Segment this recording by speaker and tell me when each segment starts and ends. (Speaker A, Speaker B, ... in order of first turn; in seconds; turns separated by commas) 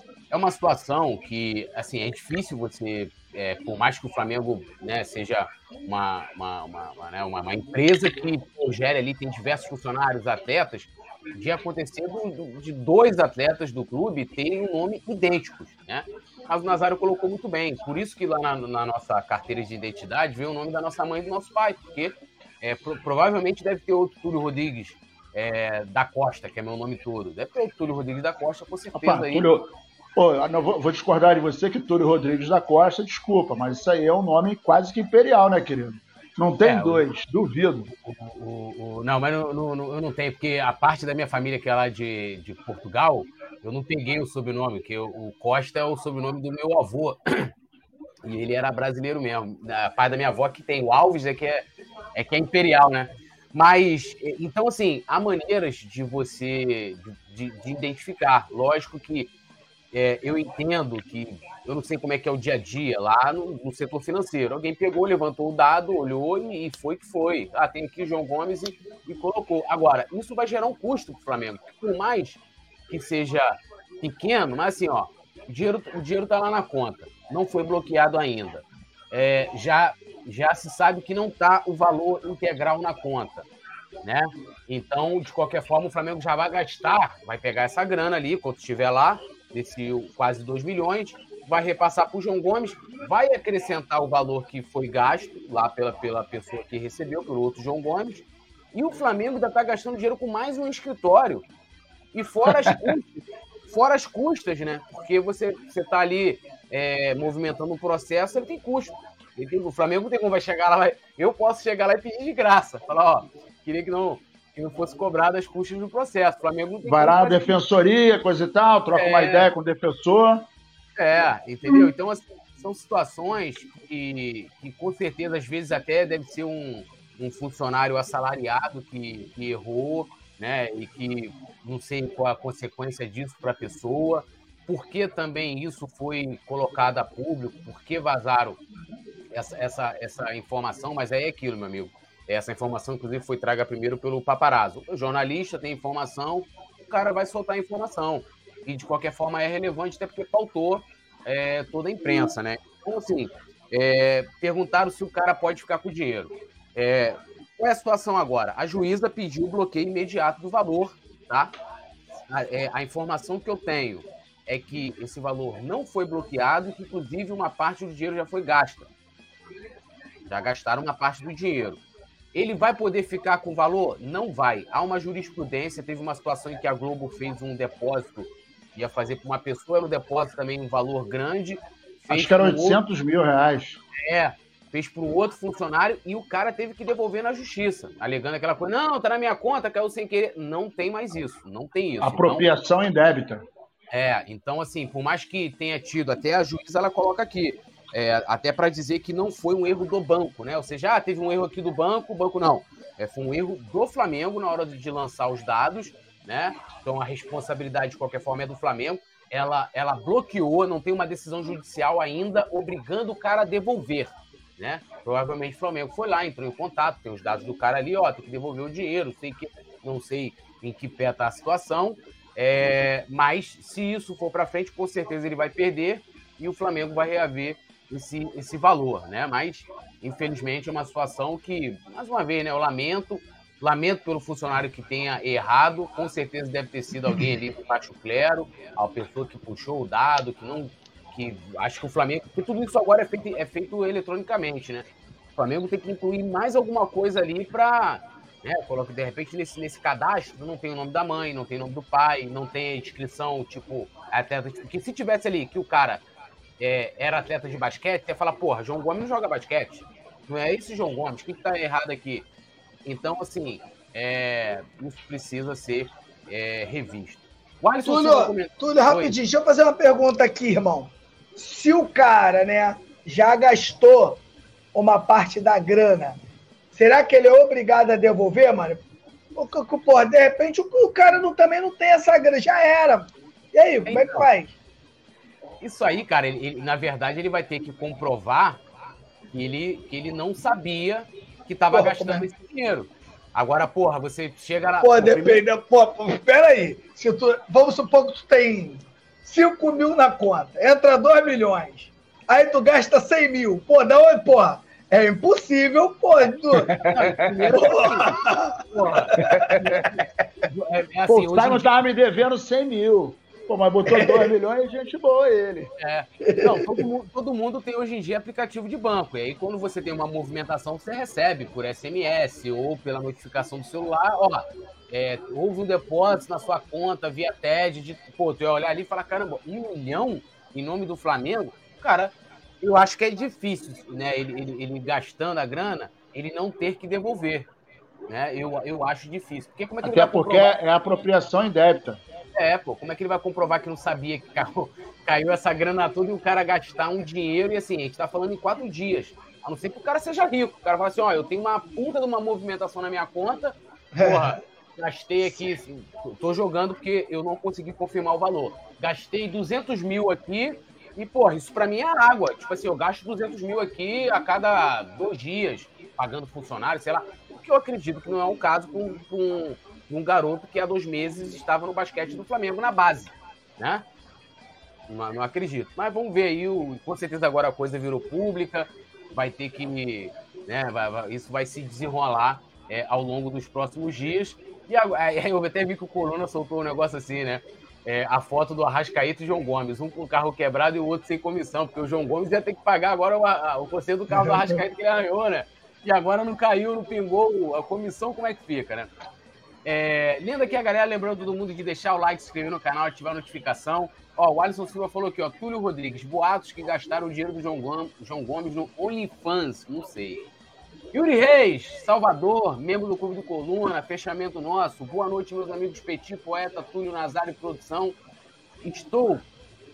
Speaker A: 0.3-29.5, Speaker B: 28.9-37.9, Speaker A: 36.6-37.0, Speaker A: 38.0-47.5, Speaker A: 48.2-59.3, Speaker A: 59.9-83.5, Speaker A: 84.0-101.5, Speaker A: 102.1-117.5, Speaker B: 116.8-120.5, Speaker A: 118.9-119.5, Speaker A: 121.0-138.6, Speaker A: 139.3-161.5, Speaker A: 162.3-168.9, Speaker A: 170.3-171.8, Speaker A: 172.3-182.8, Speaker B: 182.1-183.8, Speaker A: 184.1-192.5, Speaker B: 192.0-193.4, Speaker A: 193.9-256.0, Speaker A: 256.6-262.3, Speaker A: 262.8-269.1, Speaker C: 267.8-274.2, Speaker C: 274.7-276.2, Speaker C: 276.7-278.8, Speaker C: 279.3-284.5, Speaker A: 283.9-284.3, Speaker A: 285.6-288.6, Speaker A: 289.3-295.4, Speaker C: 291.7-292.3, Speaker C: 294.8-306.8, Speaker B: 306.8-307.3, Speaker A: 306.8-311.7, Speaker C: 307.6-308.6, Speaker C: 309.1-309.9, Speaker B: 309.2-309.8, Speaker B: 311.1-315.7, Speaker C: 313.9-314.3, Speaker A: 315.8-337.5, Speaker C: 316.2-316.8, Speaker A: 338.1-340.5, Speaker B: 339.8-342.0, Speaker A: 342.4-373.8, Speaker C: 353.9-354.4, Speaker A: 374.9-398.9, Speaker A: 399.6-410.2, Speaker A: 410.9-417.9, Speaker A: 418.6-419.2